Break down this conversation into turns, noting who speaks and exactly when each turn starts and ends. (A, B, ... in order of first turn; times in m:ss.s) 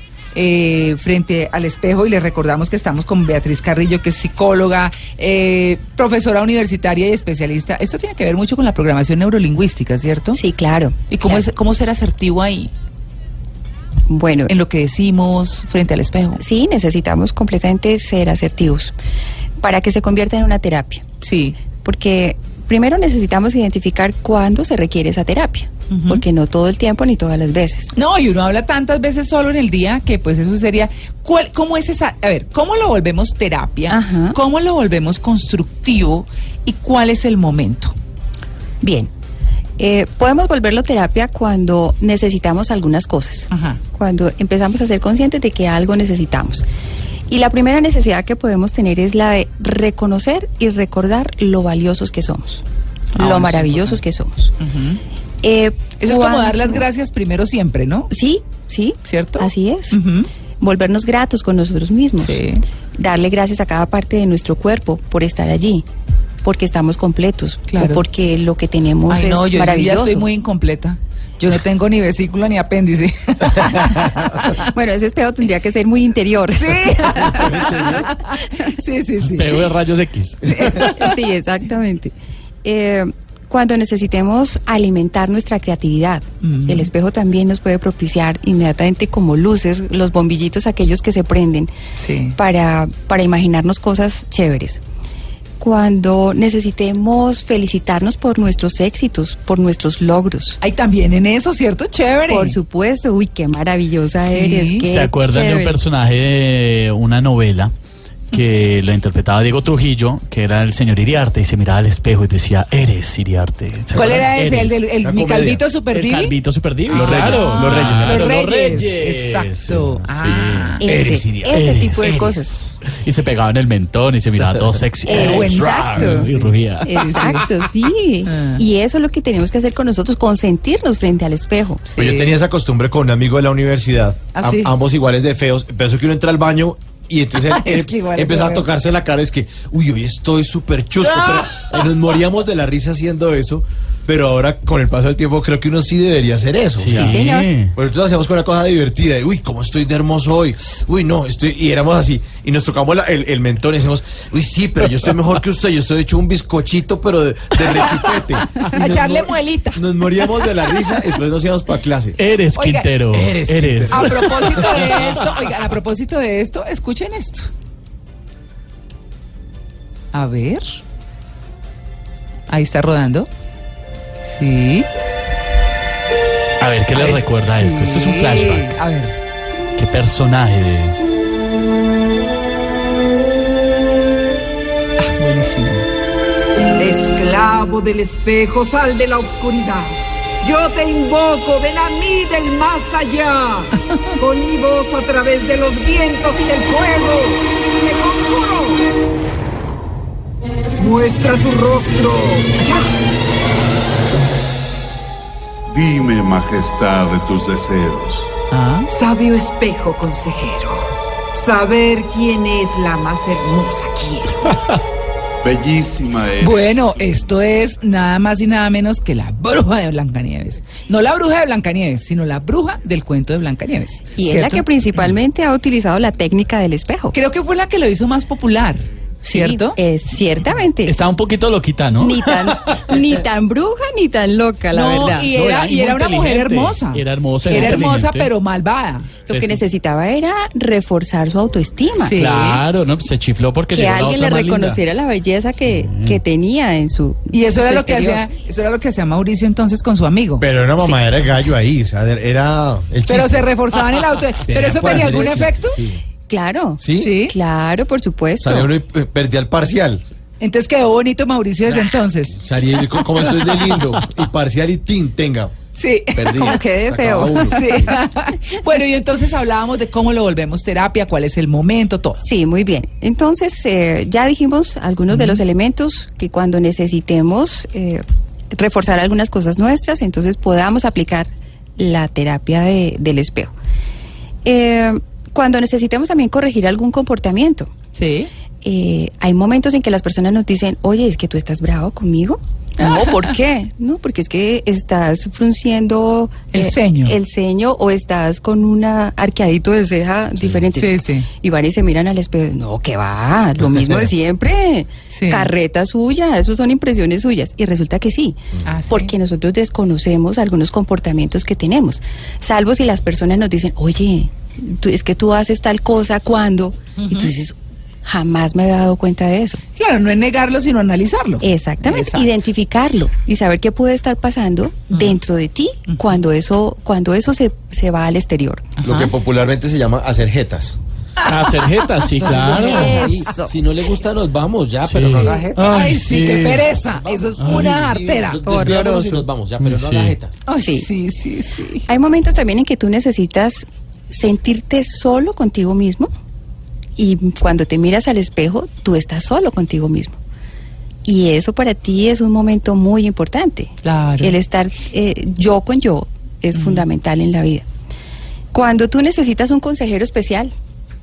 0:00.3-0:10.4 A
0:10.3-0:11.4 B
0:11.1-0:12.7 A
0:14.1-0:14.5 B
0:14.5-0:16.4 A
0:16.4-0:18.9 B
0:19.6-0:21.0 B
0:21.2-0:21.6 A
0:21.8-0:27.9 B
0:25.9-0:26.2 A
0:27.9-0:37.9 A
0:33.9-0:34.4 B
0:38.8-0:39.1 B
0:39.8-0:46.6 B
0:43.5-0:43.8 A
0:47.3-0:52.6 B
0:53.1-0:54.0 A
0:53.1-0:54.5 B
0:54.6-0:55.0 A
0:55.4-0:56.8 B
0:56.0-0:58.1 A
0:58.1-1:00.0 B
0:59.0-1:00.3 A
1:00.6-1:02.4 B
1:02.2-1:02.6 A
1:03.0-1:05.8 B
1:06.4-1:10.3 B
1:07.7-1:08.0 A
1:09.1-1:14.6 A
1:14.6-1:18.1 B
1:16.6-1:19.7 A
1:19.2-1:20.9 C
1:20.5-1:21.1 A
1:20.8-1:22.1 B
1:22.6-1:31.7 B
1:26.4-1:26.9 A
1:32.0-1:32.4 A
1:32.3-1:34.8 B
1:35.6-1:40.6 B
1:40.6-1:42.6 A
1:42.3-1:45.8 B
1:44.2-1:44.8 A
1:44.8-1:47.7 C
1:48.3-1:54.8 C
1:53.9-1:54.3 D
1:53.9-1:56.3 A
1:55.0-1:55.6 D
1:55.9-2:00.8 C
1:56.9-2:00.8 A
1:56.9-1:58.4 D
2:00.8-2:02.6 B
2:00.8-2:02.5 D
2:01.5-2:07.4 C
2:05.0-2:06.3 B
2:05.1-2:07.5 A
2:06.8-2:11.8 B
2:08.2-2:08.6 A
2:11.9-2:12.4 A
2:12.0-2:42.2 D
2:14.3-2:14.7 A
2:17.4-2:18.6 A
2:26.8-2:27.7 C
2:26.9-2:27.5 B
2:38.6-2:39.9 A
2:42.2-2:45.1 C
2:42.5-2:42.9 A
2:43.1-2:45.1 D
2:43.9-2:47.5 A
2:50.1-2:50.8 A
2:52.5-2:53.3 A
2:54.2-2:54.9 A
2:56.6-2:58.8 C
2:56.9-2:59.2 A
2:59.8-3:01.0 C
3:05.0-3:05.9 A
3:06.8-3:18.9 E
3:20.8-3:22.9 E
3:25.7-3:28.3 F
3:28.5-3:28.9 A
3:28.9-3:34.5 E
3:35.4-3:37.0 F
3:36.4-3:44.6 A
3:44.2-3:47.1 B
3:47.1-3:49.8 A
3:49.2-3:50.9 B
3:50.8-3:52.9 C
3:52.0-3:55.3 B
3:54.7-3:59.2 A
3:55.1-3:58.3 C
3:57.5-3:57.9 B
3:59.3-4:02.2 B
3:59.3-3:59.6 C
4:02.0-4:02.6 A
4:02.1-4:04.8 C
4:03.7-4:08.2 B
4:05.7-4:06.2 C
4:07.3-4:10.5 A
4:10.4-4:13.5 D
4:13.1-4:15.8 A
4:14.5-4:16.0 D
4:16.3-4:18.7 B
4:16.8-4:17.2 D
4:17.0-4:17.3 A
4:18.4-4:20.0 D
4:20.4-4:22.4 A
4:21.7-4:28.0 D
4:23.2-4:23.6 A
4:25.8-4:26.6 A
4:26.3-4:28.0 B
4:27.5-4:32.2 A
4:32.2-4:43.5 B
4:35.1-4:35.4 A
4:44.4-4:47.7 B
4:48.0-4:48.3 A
4:48.6-5:08.4 B
4:52.8-4:53.2 A
4:56.5-4:57.2 A
5:00.4-5:00.6 D
5:00.8-5:01.3 A
5:03.6-5:04.1 D
5:05.1-5:05.5 A
5:08.6-5:09.1 A
5:08.9-5:19.6 B
5:17.0-5:17.3 A
5:19.7-5:22.4 A
5:21.4-5:28.6 B
5:24.9-5:25.2 A
5:28.8-5:29.1 A
5:28.8-5:30.8 D
5:31.2-5:33.0 C
5:31.3-5:31.7 A
5:32.1-5:35.8 D
5:32.5-5:33.5 B
5:34.8-5:36.7 C
5:35.6-5:38.4 A
5:37.0-5:40.4 D
5:37.4-5:37.8 C
5:38.4-5:39.2 B
5:39.6-5:40.1 C
5:40.5-5:41.8 A
5:40.6-5:40.9 B
5:41.9-5:46.1 B
5:47.0-5:50.2 B
5:51.0-5:57.6 B
5:53.8-5:54.4 A
5:56.5-5:56.8 A
5:58.5-6:00.5 B